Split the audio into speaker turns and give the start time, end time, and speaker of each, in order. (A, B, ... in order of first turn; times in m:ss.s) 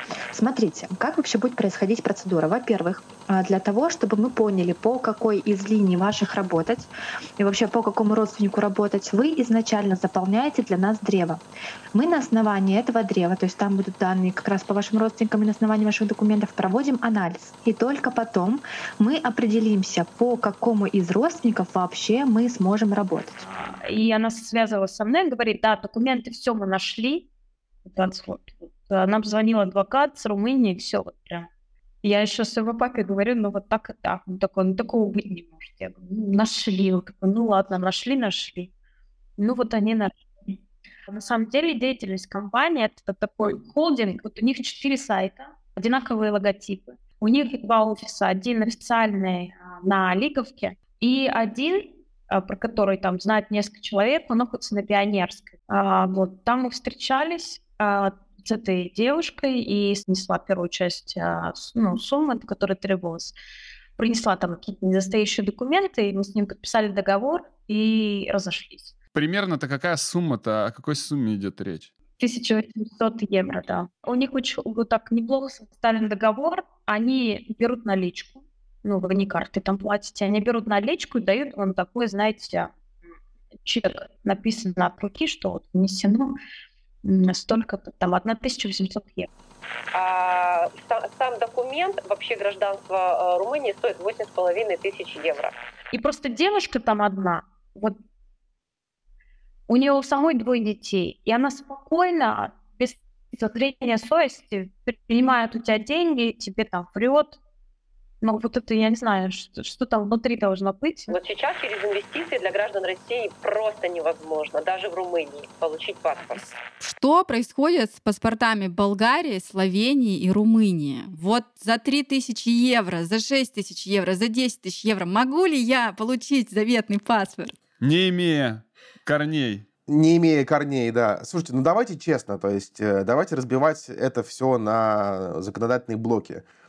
0:00.3-0:11.4 A
0:11.9-0:23.4 A
0:23.8-0:27.3 B
0:27.9-0:31.5 B
0:32.0-0:38.7 B
0:39.4-0:40.6 B
0:41.1-1:03.4 B
1:04.0-1:08.9 B
1:09.1-1:11.9 C
1:12.2-1:22.7 B
1:23.6-1:26.4 B
1:27.0-1:29.3 B
1:29.9-1:35.5 D
1:35.9-1:38.0 B
1:39.7-1:47.4 B
1:48.2-1:51.2 B
1:51.1-1:56.4 D
1:56.6-2:07.6 E
2:07.8-2:09.6 C
2:09.9-2:16.4 F